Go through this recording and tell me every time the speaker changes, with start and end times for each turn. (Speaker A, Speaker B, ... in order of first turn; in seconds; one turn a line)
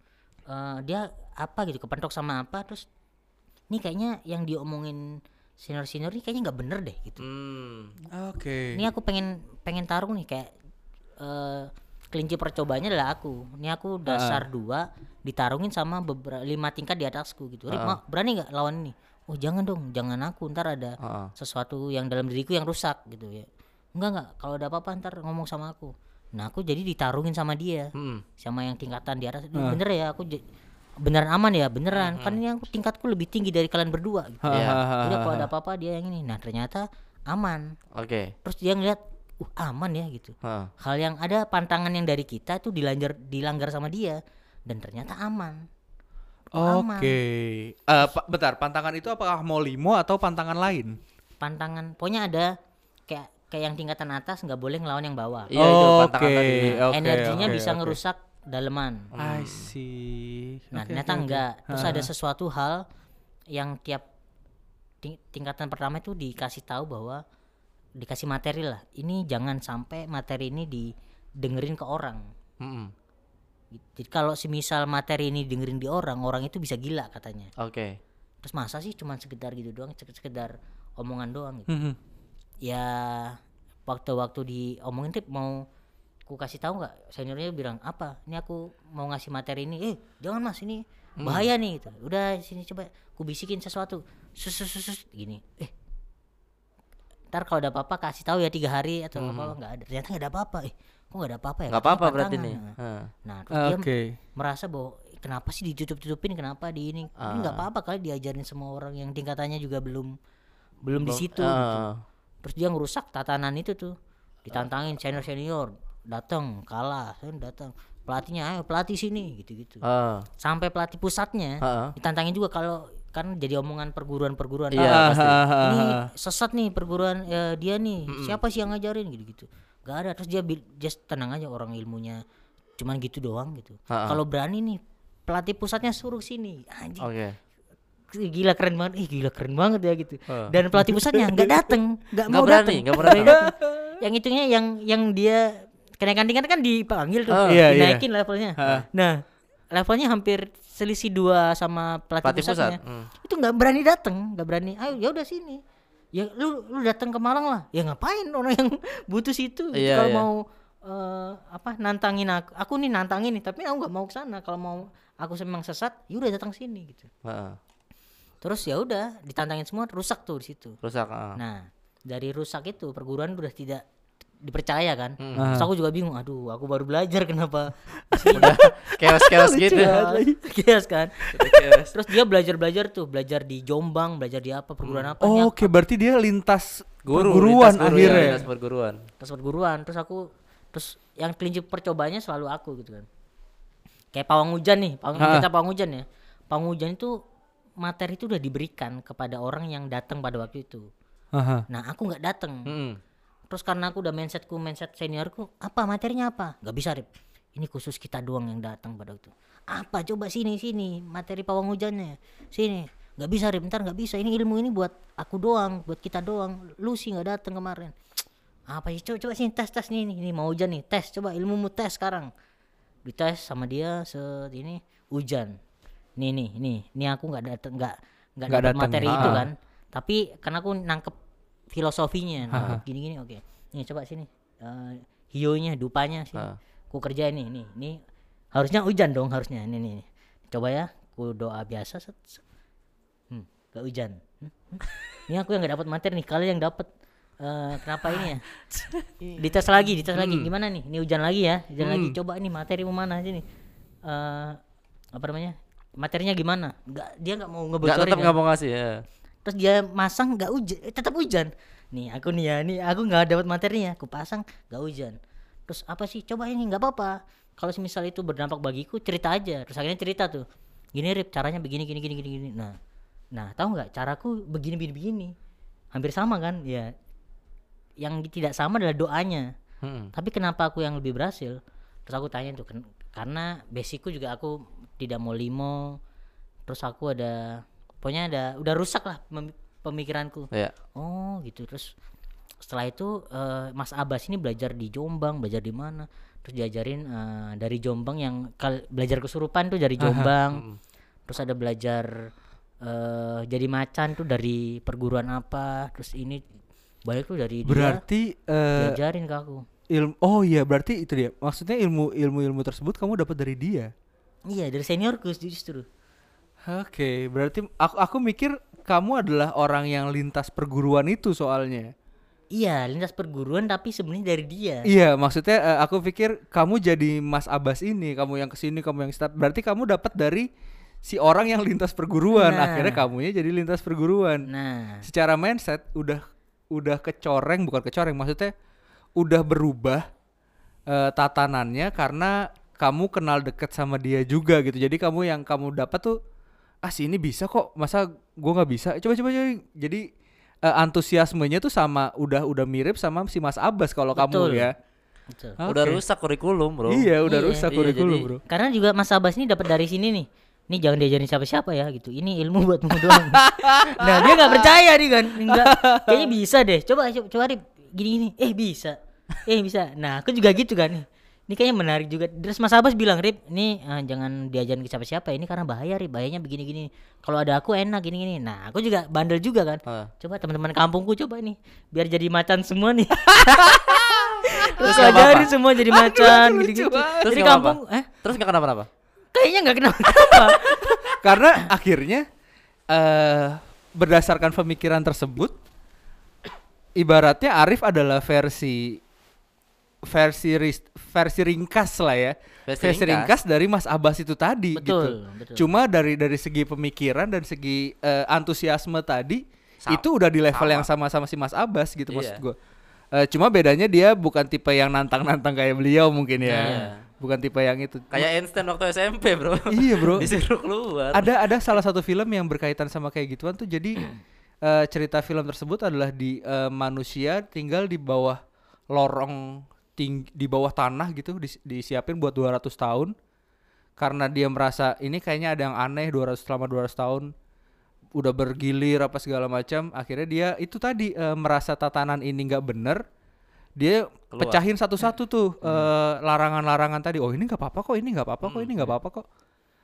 Speaker A: 0.5-2.9
Speaker A: 3.7-5.0
Speaker A: 5.6-7.2
Speaker B: 7.2-7.9
Speaker C: 8.1-8.8
Speaker A: 8.8-10.5
Speaker A: 11.2-30.4
Speaker C: 14.1-14.5
Speaker B: 17.7-18.0
Speaker B: 21.0-21.3
Speaker B: 28.0-28.2
Speaker C: 29.6-29.8
Speaker A: 31.0-34.5
Speaker B: 31.9-32.4
Speaker C: 34.4-35.5
Speaker B: 34.5-34.8
Speaker A: 35.0-37.7
Speaker B: 38.0-38.4
Speaker A: 38.4-45.7
Speaker B: 40.4-40.7
Speaker C: 46.5-51.0
Speaker A: 46.5-47.2
Speaker A: 51.4-52.5
Speaker A: 53.1-55.5
Speaker B: 55.5-57.6
Speaker C: 55.5-58.0
Speaker A: 56.6-59.1
Speaker B: 59.1-59.7
Speaker C: 59.2-62.1
Speaker A: 60.8-62.8
Speaker A: 63.5-64.0
Speaker A: 65.0-67.2
Speaker A: 68.0-72.3
Speaker B: 72.6-72.9
Speaker A: 73.8-77.5
Speaker B: 77.6-78.0
Speaker A: 78.4-81.7
Speaker C: 81.7-82.0
Speaker A: 82.6-85.6
Speaker A: 86.3-95.7
Speaker B: 91.2-91.5
Speaker A: 97.3-102.7
Speaker B: 99.2-99.5
Speaker B: 101.7-103.1
Speaker A: 103.3-110.2
Speaker C: 103.5-104.2
Speaker B: 107.2-107.7
Speaker A: 110.8-111.9
Speaker B: 111.0-112.0
Speaker A: 112.4-114.0
Speaker A: 114.5-119.8
Speaker B: 119.8-120.3
Speaker A: 120.4-132.2
Speaker B: 121.6-121.9
Speaker B: 124.8-125.4
Speaker C: 124.8-126.1
Speaker B: 128.1-128.4
Speaker A: 132.8-137.1
Speaker B: 133.9-134.2
Speaker B: 137.0-137.4
Speaker A: 138.1-155.6
Speaker B: 140.3-140.5
Speaker C: 140.7-141.7
Speaker B: 142.3-143.4
Speaker C: 143.1-144.0
Speaker B: 147.3-147.6
Speaker C: 147.5-148.0
Speaker C: 148.6-148.8
Speaker B: 152.2-153.1
Speaker A: 156.1-167.1
Speaker B: 159.7-160.3
Speaker B: 167.2-167.6
Speaker A: 168.4-170.8
Speaker B: 170.8-171.4
Speaker A: 171.4-173.8
Speaker A: 174.4-178.5
Speaker B: 175.2-175.6
Speaker C: 175.3-175.7
Speaker C: 178.1-180.4
Speaker B: 178.3-179.9
Speaker A: 179.7-185.7
Speaker B: 181.3-181.9
Speaker C: 185.2-188.5
Speaker B: 187.1-189.1
Speaker A: 187.8-188.5
Speaker A: 189.2-193.1
Speaker A: 194.1-197.2
Speaker C: 195.2-195.5
Speaker A: 197.8-200.9
Speaker C: 201.3-201.7
Speaker A: 201.7-202.7
Speaker B: 202.7-203.0
Speaker A: 203.5-217.9
Speaker A: 218.7-222.3
Speaker A: 223.1-225.6
Speaker A: 226.2-231.1
Speaker C: 228.5-229.4
Speaker B: 229.1-229.4
Speaker A: 231.7-238.0
Speaker C: 232.5-232.8
Speaker A: 238.5-242.4
Speaker A: 243.3-246.9
Speaker A: 247.4-248.4
Speaker A: 249.4-253.4
Speaker B: 250.2-250.5
Speaker A: 254.1-254.6
Speaker A: 255.2-258.4
Speaker B: 257.8-259.0
Speaker A: 259.4-265.2
Speaker A: 265.7-272.8
Speaker A: 273.4-275.3
Speaker A: 275.9-276.9
Speaker A: 278.0-279.5
Speaker B: 279.8-280.1
Speaker A: 280.1-286.0
Speaker A: 286.7-291.9
Speaker A: 292.6-300.6
Speaker C: 300.0-300.3
Speaker B: 300.5-300.8
Speaker A: 301.3-302.1
Speaker A: 302.8-306.4
Speaker A: 307.1-308.0
Speaker C: 307.7-309.0
Speaker A: 308.8-309.6
Speaker C: 309.9-313.9
Speaker A: 314.5-315.9
Speaker C: 316.7-321.9
Speaker A: 322.5-324.9
Speaker C: 324.9-330.5
Speaker C: 331.0-334.5
Speaker A: 332.3-333.0
Speaker A: 334.5-335.1
Speaker C: 335.0-336.2
Speaker C: 336.7-338.5
Speaker C: 339.2-340.1
Speaker C: 340.9-346.2
Speaker C: 346.8-350.1
Speaker C: 350.6-354.7
Speaker A: 354.1-354.7
Speaker A: 355.3-355.6
Speaker C: 355.6-356.0
Speaker B: 355.6-357.1
Speaker C: 356.9-358.4
Speaker A: 357.3-357.7
Speaker B: 357.7-358.3
Speaker A: 358.5-388.1
Speaker C: 363.0-364.7
Speaker C: 365.5-366.3
Speaker B: 379.9-380.1
Speaker C: 383.3-387.4
Speaker B: 384.8-385.5
Speaker B: 387.2-388.9
Speaker A: 389.4-391.6
Speaker B: 390.2-390.9
Speaker C: 391.1-392.3
Speaker C: 392.9-395.6
Speaker C: 397.0-399.0
Speaker C: 400.1-412.6
Speaker B: 402.7-403.3
Speaker A: 404.8-405.7
Speaker B: 409.8-410.9
Speaker B: 412.1-412.4
Speaker C: 413.1-418.3
Speaker A: 416.4-416.9
Speaker B: 416.6-417.0
Speaker B: 418.1-421.3
Speaker C: 419.7-420.3
Speaker C: 421.1-424.0
Speaker C: 424.6-428.4
Speaker C: 428.9-433.1
Speaker C: 434.0-437.3
Speaker C: 438.2-443.0
Speaker C: 443.8-449.2
Speaker B: 444.4-444.6
Speaker B: 448.4-448.9